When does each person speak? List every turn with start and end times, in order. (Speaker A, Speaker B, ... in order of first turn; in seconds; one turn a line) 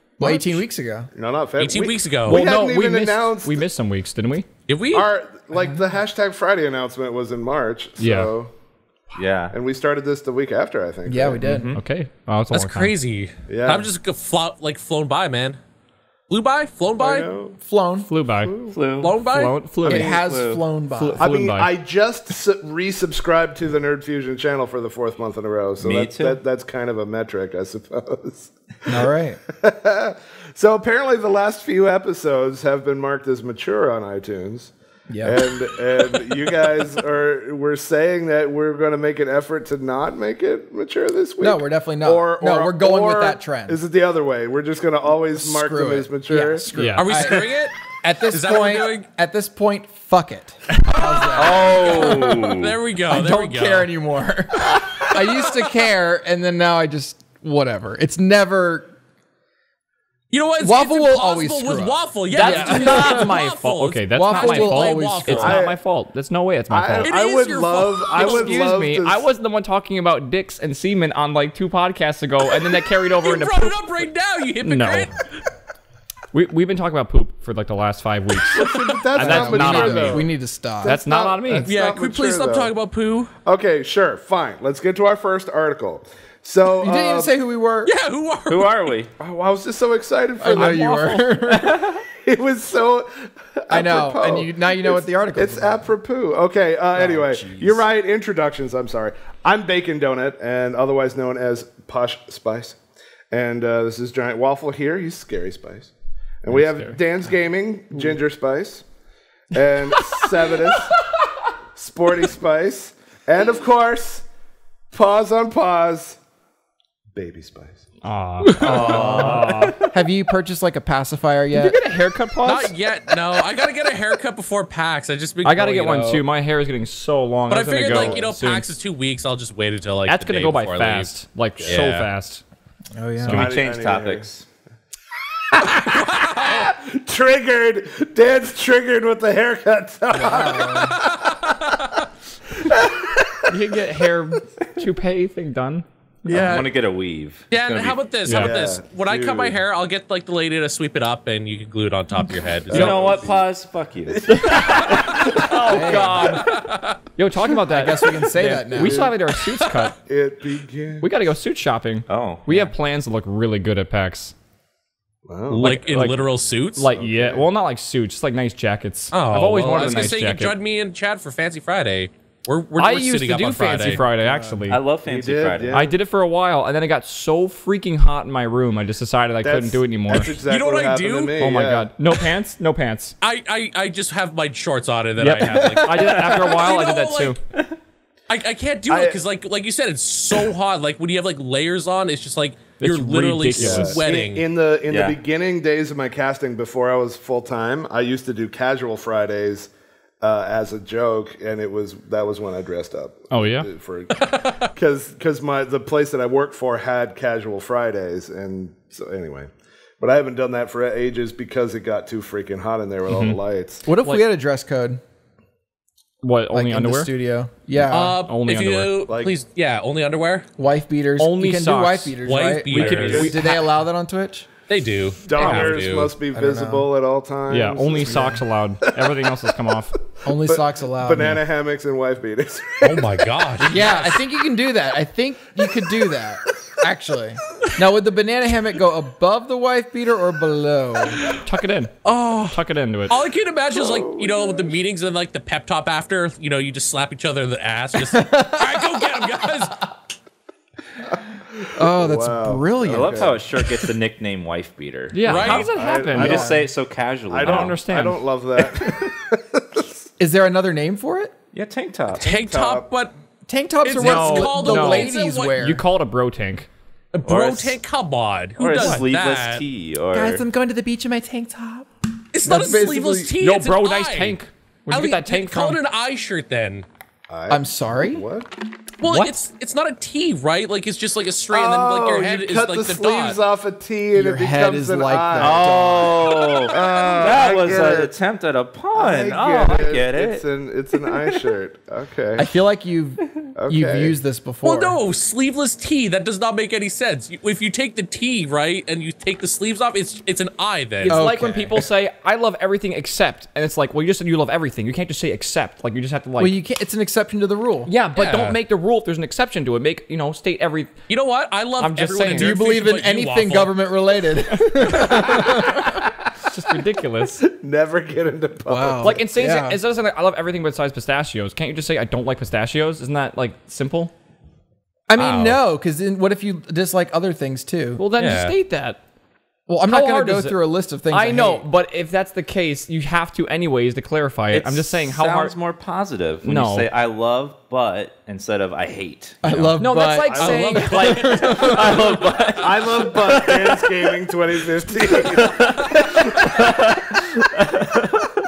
Speaker A: 0.2-0.6
Speaker B: 0.2-1.1
Speaker A: 1.1-3.6
Speaker C: 1.6-2.4
Speaker D: 2.2-4.5
Speaker C: 4.7-5.1
Speaker A: 4.9-8.5
Speaker D: 8.0-8.3
Speaker A: 9.1-11.6
Speaker E: 9.1-9.5
Speaker B: 11.1-11.7
Speaker E: 11.4-11.8
Speaker D: 11.7-12.9
Speaker C: 12.5-15.6
Speaker A: 13.5-13.9
Speaker C: 16.3-17.3
Speaker A: 17.0-17.6
Speaker B: 17.6-18.1
Speaker D: 18.1-18.5
Speaker A: 18.3-18.8
Speaker E: 18.7-19.2
Speaker C: 19.0-19.6
Speaker D: 19.2-20.2
Speaker E: 19.8-20.6
Speaker B: 19.8-21.3
Speaker D: 20.9-21.8
Speaker A: 21.2-46.7
Speaker E: 25.8-26.4
Speaker B: 28.9-29.4
Speaker B: 35.1-35.4
Speaker B: 41.4-43.8
Speaker B: 45.3-52.2
Speaker D: 46.7-47.4
Speaker C: 47.0-49.0
Speaker E: 51.3-52.8
Speaker C: 51.5-53.9
Speaker B: 53.1-58.9
Speaker C: 60.3-65.6
Speaker B: 60.6-63.3
Speaker D: 62.3-67.1
Speaker B: 64.1-65.6
Speaker A: 65.4-65.8
Speaker A: 66.7-69.3
Speaker C: 67.0-68.6
Speaker D: 68.1-74.1
Speaker C: 73.2-75.2
Speaker D: 74.6-75.1
Speaker D: 76.3-80.3
Speaker A: 78.5-80.3
Speaker B: 79.1-80.9
Speaker A: 80.8-82.7
Speaker D: 80.8-81.7
Speaker C: 81.6-83.3
Speaker A: 83.4-87.3
Speaker B: 86.8-87.9
Speaker C: 87.8-88.9
Speaker E: 88.5-89.1
Speaker A: 89.2-91.3
Speaker B: 90.4-91.8
Speaker D: 90.6-91.1
Speaker E: 91.4-92.0
Speaker A: 91.8-102.8
Speaker B: 93.7-95.9
Speaker B: 97.0-97.8
Speaker A: 103.3-105.9
Speaker A: 106.4-108.8
Speaker D: 106.5-107.0
Speaker A: 109.5-111.0
Speaker D: 110.1-111.2
Speaker A: 111.7-114.2
Speaker A: 114.9-116.2
Speaker A: 117.1-117.8
Speaker D: 118.0-119.9
Speaker B: 118.5-121.8
Speaker E: 118.6-119.9
Speaker D: 121.5-122.7
Speaker C: 122.4-126.2
Speaker D: 125.4-128.7
Speaker C: 127.5-131.1
Speaker A: 127.9-128.3
Speaker D: 130.1-132.4
Speaker C: 131.6-132.1
Speaker B: 132.9-133.5
Speaker E: 133.2-134.4
Speaker D: 133.2-133.6
Speaker A: 133.3-134.3
Speaker A: 135.5-141.5
Speaker C: 136.1-136.7
Speaker B: 140.1-141.0
Speaker A: 142.6-143.8
Speaker D: 143.5-146.6
Speaker E: 146.3-148.0
Speaker C: 146.3-146.7
Speaker C: 147.5-153.0
Speaker D: 148.2-148.5
Speaker A: 148.3-149.6
Speaker A: 152.7-153.5
Speaker E: 152.7-154.6
Speaker D: 152.7-153.2
Speaker A: 154.1-156.0
Speaker D: 154.3-159.9
Speaker C: 155.0-155.4
Speaker B: 155.7-156.4
Speaker C: 156.2-157.0
Speaker B: 157.7-159.1
Speaker A: 158.8-159.2
Speaker C: 159.4-159.9
Speaker A: 160.0-161.1
Speaker D: 161.0-164.3
Speaker E: 162.1-162.7
Speaker A: 165.2-165.8
Speaker D: 165.5-170.5
Speaker C: 165.6-166.8
Speaker A: 166.9-167.5
Speaker C: 169.1-174.0
Speaker E: 169.8-170.1
Speaker D: 172.8-174.8
Speaker B: 173.9-174.7
Speaker E: 174.7-175.9
Speaker A: 175.0-176.0
Speaker D: 175.7-180.4
Speaker A: 179.4-181.9
Speaker C: 180.2-181.4
Speaker D: 181.4-183.2
Speaker C: 183.2-187.4
Speaker D: 185.2-187.4
Speaker E: 185.9-186.4
Speaker C: 188.3-194.5
Speaker A: 188.9-189.2
Speaker D: 192.8-194.1
Speaker A: 193.6-199.7
Speaker E: 194.9-195.2
Speaker A: 200.2-213.8
Speaker D: 203.3-203.7
Speaker C: 204.1-204.6
Speaker D: 213.1-213.4
Speaker B: 213.8-215.0
Speaker D: 216.2-217.1
Speaker B: 216.5-218.2
Speaker D: 217.7-219.1
Speaker C: 217.9-220.5
Speaker A: 219.1-219.3
Speaker B: 220.6-224.5
Speaker D: 221.2-222.2
Speaker C: 222.2-223.5
Speaker D: 222.7-223.6
Speaker A: 223.0-223.3
Speaker C: 224.7-226.1
Speaker A: 225.3-228.3
Speaker D: 225.4-225.9
Speaker B: 226.3-226.9
Speaker D: 227.5-230.0
Speaker B: 228.0-228.4
Speaker A: 228.9-229.5
Speaker A: 230.2-233.6
Speaker B: 230.2-231.4
Speaker C: 232.8-234.0
Speaker B: 233.6-241.2
Speaker D: 241.4-243.2
Speaker C: 242.0-242.5
Speaker C: 243.1-249.9
Speaker A: 243.7-244.8
Speaker B: 248.1-249.1
Speaker A: 251.5-253.4
Speaker B: 251.7-253.4
Speaker E: 252.8-257.8
Speaker D: 255.1-256.6
Speaker C: 255.2-255.7
Speaker A: 255.3-256.6
Speaker B: 256.2-256.6
Speaker A: 257.3-260.0
Speaker D: 257.4-258.2
Speaker B: 260.2-261.3
Speaker E: 261.5-262.5
Speaker C: 262.2-263.1
Speaker A: 262.2-262.9
Speaker B: 263.5-265.8
Speaker C: 263.8-265.6
Speaker D: 264.0-266.7
Speaker C: 267.1-269.6
Speaker E: 267.2-267.8
Speaker E: 268.6-270.4
Speaker B: 270.1-271.9
Speaker C: 272.3-274.4
Speaker B: 272.4-273.3
Speaker D: 273.4-275.8
Speaker C: 274.9-276.9
Speaker A: 277.3-278.5
Speaker B: 277.5-278.2
Speaker C: 279.0-283.4
Speaker B: 279.0-279.4
Speaker A: 281.5-288.1
Speaker B: 284.1-286.5
Speaker E: 285.4-290.4
Speaker C: 286.7-287.5
Speaker A: 288.9-292.5
Speaker B: 292.4-295.0
Speaker A: 293.5-294.2
Speaker C: 294.6-301.4
Speaker D: 301.0-306.6
Speaker B: 301.1-301.9
Speaker B: 306.4-307.9
Speaker D: 307.9-310.9
Speaker C: 308.2-308.5
Speaker C: 311.1-313.8
Speaker D: 311.8-312.6
Speaker B: 312.3-316.0
Speaker D: 314.6-317.4
Speaker A: 317.4-319.2
Speaker B: 318.7-319.8
Speaker D: 319.0-324.1
Speaker B: 325.1-328.0
Speaker C: 325.2-325.6
Speaker D: 328.0-329.0
Speaker C: 328.2-328.5
Speaker B: 329.7-331.6
Speaker D: 329.9-335.6
Speaker E: 334.5-339.7
Speaker D: 336.4-336.9
Speaker B: 339.4-342.0
Speaker D: 339.7-342.5
Speaker A: 340.3-340.8
Speaker C: 340.4-341.7
Speaker E: 341.4-343.9
Speaker A: 342.6-346.8
Speaker E: 345.3-348.3